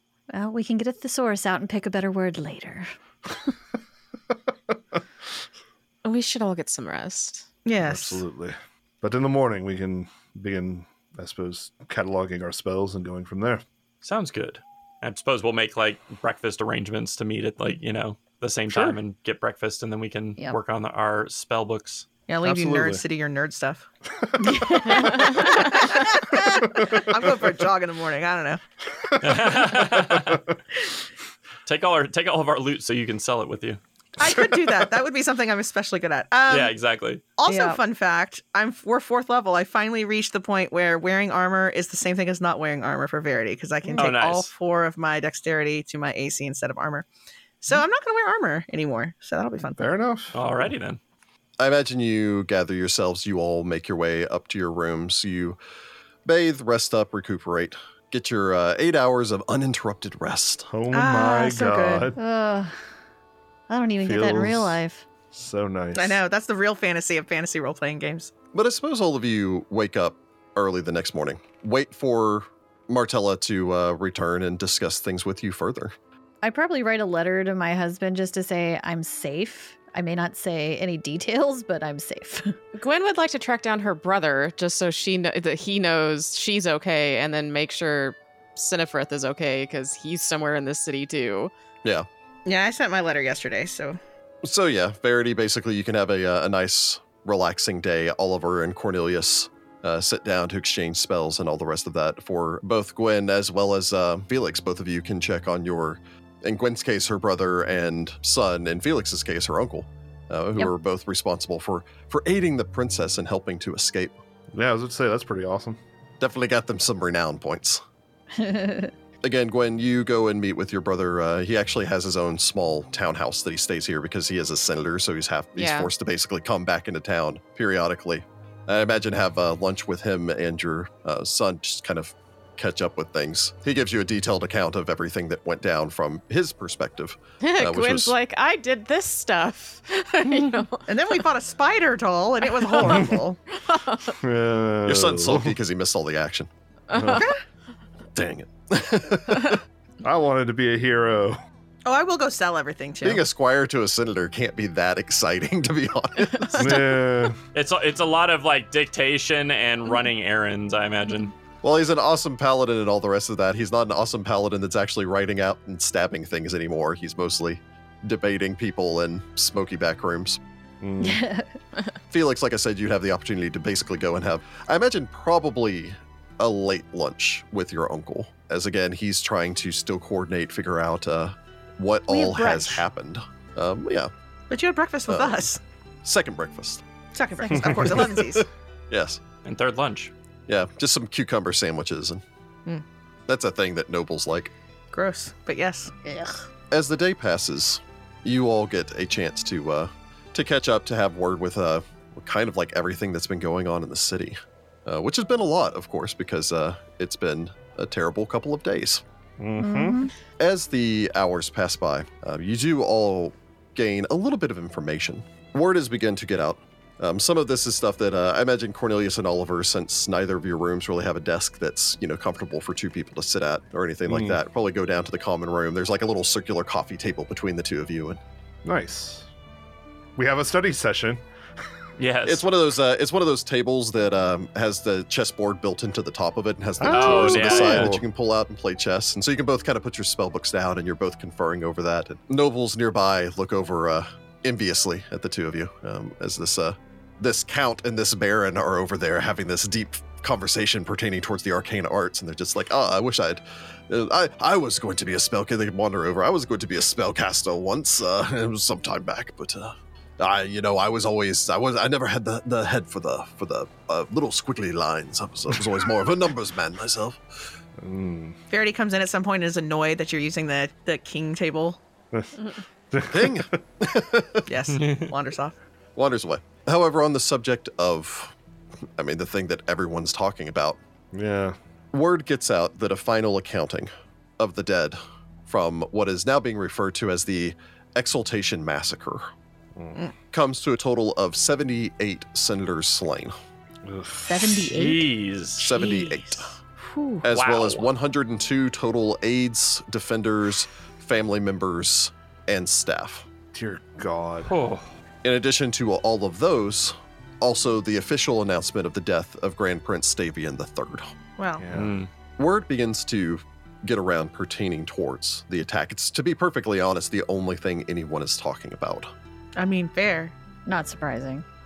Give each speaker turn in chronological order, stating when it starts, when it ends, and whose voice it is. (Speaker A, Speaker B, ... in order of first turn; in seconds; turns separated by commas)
Speaker A: 0.3-2.9, Speaker B: 6.0-7.5, Speaker C: 7.6-8.2, Speaker D: 7.8-13.6, Speaker E: 14.0-22.1, Speaker D: 18.7-19.0, Speaker C: 22.3-23.9, Speaker D: 22.4-23.0, Speaker D: 24.2-25.2, Speaker A: 24.4-25.9, Speaker C: 24.9-28.6, Speaker D: 26.3-27.3, Speaker D: 29.0-30.4, Speaker E: 29.2-30.4, Speaker E: 31.6-33.8, Speaker C: 34.2-36.7, Speaker E: 36.5-37.2, Speaker C: 37.4-47.0, Speaker A: 37.5-37.8, Speaker E: 43.9-44.5, Speaker C: 47.6-49.9, Speaker D: 49.8-50.4, Speaker E: 50.3-51.0, Speaker F: 51.6-55.6, Speaker F: 56.2-60.7, Speaker D: 60.7-62.2, Speaker C: 60.9-62.1, Speaker A: 62.2-62.7, Speaker A: 63.7-65.0, Speaker D: 64.0-64.8, Speaker D: 65.3-66.2, Speaker C: 65.9-68.3, Speaker F: 68.5-75.9, Speaker A: 76.4-82.5, Speaker B: 82.8-91.5, Speaker C: 92.5-94.0, Speaker F: 94.4-114.2, Speaker D: 114.5-115.8, Speaker F: 116.2-117.8, Speaker A: 118.3-118.9, Speaker F: 119.2-138.1, Speaker B: 125.5-125.9, Speaker B: 137.4-140.9, Speaker C: 140.9-143.4, Speaker B: 142.7-144.1, Speaker D: 144.2-145.5, Speaker F: 144.8-146.5, Speaker B: 146.9-147.3, Speaker D: 146.9-147.2, Speaker C: 147.1-147.4, Speaker F: 148.1-149.6, Speaker D: 150.0-151.4, Speaker C: 151.8-153.2, Speaker F: 153.0-156.8, Speaker B: 156.5-156.8, Speaker D: 156.6-157.4, Speaker E: 157.5-161.3, Speaker F: 161.6-170.4, Speaker D: 170.8-171.2, Speaker A: 171.0-171.5, Speaker F: 172.1-184.1, Speaker C: 182.1-182.8, Speaker C: 184.5-185.6, Speaker F: 185.1-185.4, Speaker F: 186.0-186.8, Speaker C: 187.1-188.5, Speaker D: 187.5-187.9, Speaker F: 187.8-189.2, Speaker E: 189.4-190.1, Speaker F: 190.5-192.2, Speaker F: 193.3-194.5, Speaker C: 194.9-195.9, Speaker A: 196.0-196.4, Speaker F: 196.7-209.0, Speaker D: 209.4-210.1, Speaker A: 209.6-210.1, Speaker F: 210.4-228.2, Speaker D: 224.1-224.4, Speaker D: 228.6-229.3, Speaker D: 230.2-231.2, Speaker E: 232.0-232.5, Speaker F: 232.2-267.2, Speaker D: 236.8-238.0, Speaker E: 236.8-237.9, Speaker D: 267.8-268.4, Speaker C: 268.5-271.8, Speaker D: 272.1-273.6, Speaker F: 273.1-274.5, Speaker C: 274.5-275.6, Speaker E: 274.7-275.1, Speaker F: 275.9-278.3, Speaker F: 279.0-280.8, Speaker D: 281.1-281.6, Speaker F: 281.9-289.3, Speaker D: 289.8-290.0, Speaker F: 290.3-293.3, Speaker D: 293.8-294.5, Speaker A: 294.3-295.1, Speaker E: 294.6-295.7, Speaker F: 295.6-296.5, Speaker C: 295.6-296.5, Speaker A: 296.8-297.2, Speaker F: 297.2-303.3, Speaker E: 297.2-297.9, Speaker D: 303.5-304.5, Speaker E: 304.4-304.9, Speaker F: 305.2-311.1, Speaker C: 311.4-311.6, Speaker D: 311.6-312.0, Speaker E: 311.7-312.1, Speaker F: 312.4-319.1, Speaker C: 319.6-320.3, Speaker A: 320.6-321.4